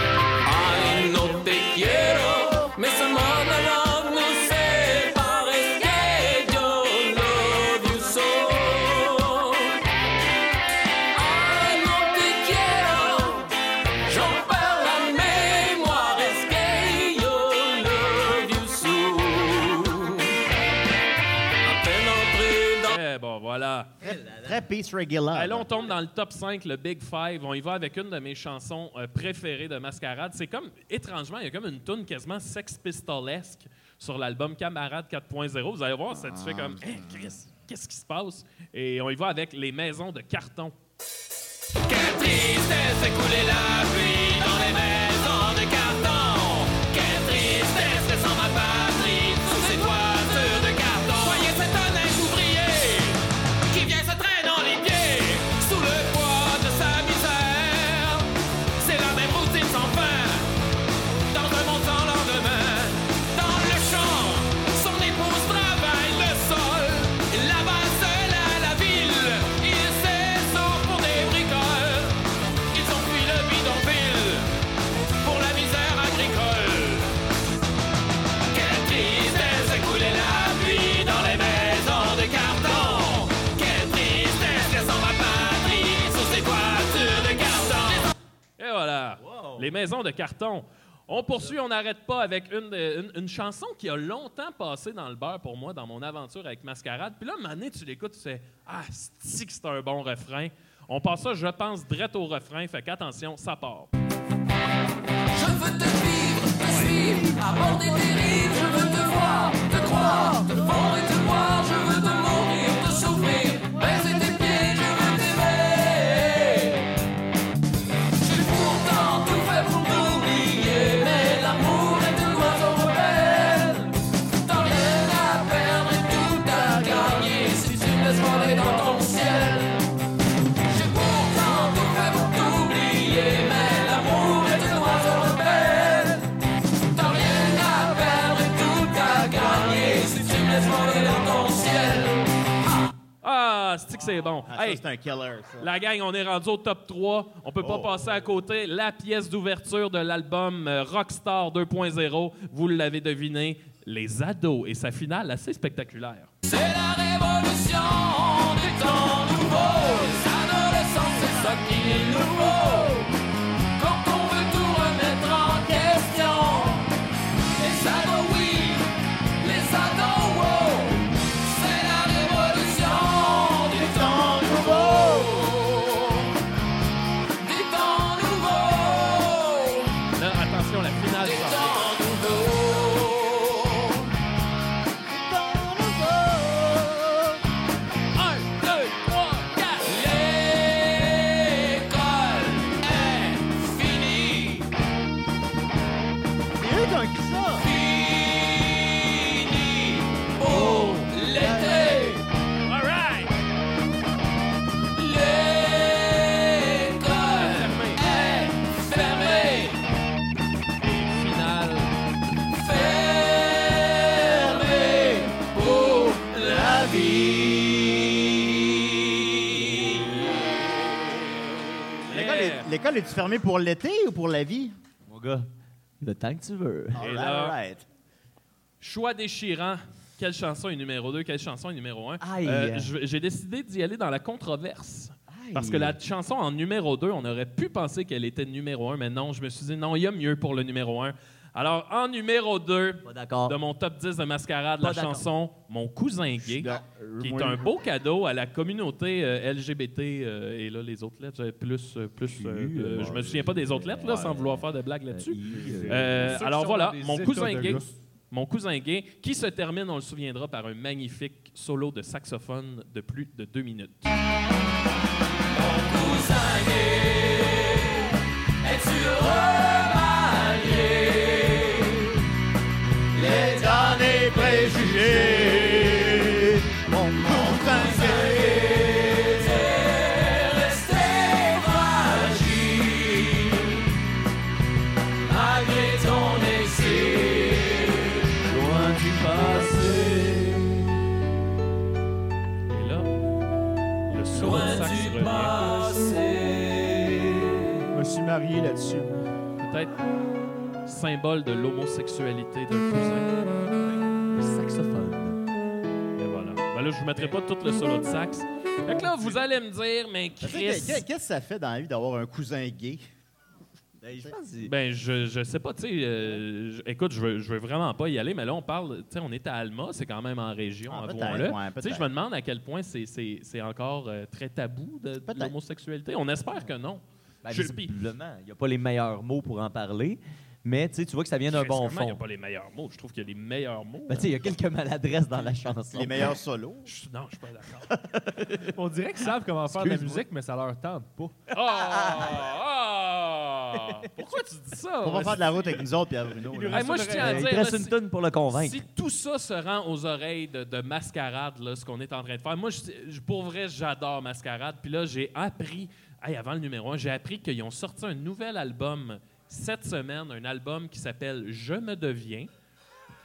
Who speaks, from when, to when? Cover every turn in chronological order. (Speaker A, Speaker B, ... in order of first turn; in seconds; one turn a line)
Speaker A: 0.4-9.8
Speaker A: 11.1-13.5
Speaker A: 14.1-20.4
Speaker A: 21.6-23.0
Speaker B: 22.8-23.9
Speaker C: 24.0-25.7
Speaker D: 24.0-24.6
Speaker B: 25.3-40.7
Speaker E: 36.2-37.2
Speaker A: 41.9-60.5
Speaker A: 61.3-74.5
Speaker A: 75.2-77.1
Speaker A: 78.5-88.1
Speaker B: 88.6-103.9
Speaker D: 89.2-89.6
Speaker A: 105.3-116.9
Speaker A: 118.2-129.8
Speaker A: 130.7-136.3
Speaker A: 136.9-142.2
Speaker B: 143.2-144.8
Speaker C: 144.5-145.7
Speaker B: 145.6-156.3
Speaker C: 147.6-147.9
Speaker A: 156.4-163.1
Speaker A: 163.8-166.9
Speaker A: 167.5-176.3
Speaker C: 173.8-175.5
Speaker A: 177.4-180.0
Speaker B: 180.1-181.9
Speaker A: 181.2-184.1
Speaker C: 185.1-187.4
Speaker B: 188.1-189.9
Speaker A: 189.8-194.7
Speaker C: 196.6-197.7
Speaker A: 197.6-202.2
Speaker C: 200.4-202.2
Speaker B: 202.7-203.3
Speaker A: 204.9-209.8
Speaker B: 207.3-208.1
Speaker B: 210.8-211.9
Speaker A: 212.5-220.4
Speaker B: 222.1-222.7
Speaker C: 222.1-224.7
Speaker D: 225.1-225.5
Speaker D: 226.0-227.0
Speaker C: 226.9-227.8
Speaker B: 227.0-227.6
Speaker B: 228.8-264.3
Speaker D: 232.2-232.9
Speaker D: 235.3-236.0
Speaker D: 243.0-243.6
Speaker D: 244.8-245.2
Speaker E: 246.4-247.7
Speaker D: 252.3-256.4
Speaker F: 255.6-257.9
Speaker A: 265.5-268.1
Speaker A: 268.6-272.2
Speaker A: 273.1-275.9
Speaker C: 273.2-279.3
Speaker E: 275.1-276.1
Speaker E: 277.2-278.5
Speaker A: 277.2-283.9
Speaker A: 285.2-288.4
Speaker D: 288.5-290.0
Speaker B: 292.7-293.1
Speaker B: 294.1-295.6
Speaker A: 294.3-297.9
Speaker E: 297.9-299.1
Speaker B: 299.6-299.9
Speaker B: 300.9-303.3
Speaker D: 303.9-305.4
Speaker B: 306.1-311.0
Speaker C: 310.4-313.0
Speaker D: 314.0-314.7
Speaker C: 314.1-314.3
Speaker B: 314.6-327.9
Speaker C: 320.9-322.1
Speaker C: 325.3-325.5
Speaker D: 327.4-332.2
Speaker B: 331.5-334.3
Speaker D: 334.1-336.3
Speaker C: 335.9-336.9
Speaker B: 336.9-337.9
Speaker D: 337.9-338.7
Speaker F: 338.7-341.3
Speaker D: 339.7-340.2
Speaker D: 341.5-342.4
Speaker B: 341.5-345.8
Speaker C: 345.0-347.1
Speaker F: 346.5-347.5
Speaker B: 346.7-347.9
Speaker D: 347.1-348.8
Speaker B: 348.5-362.5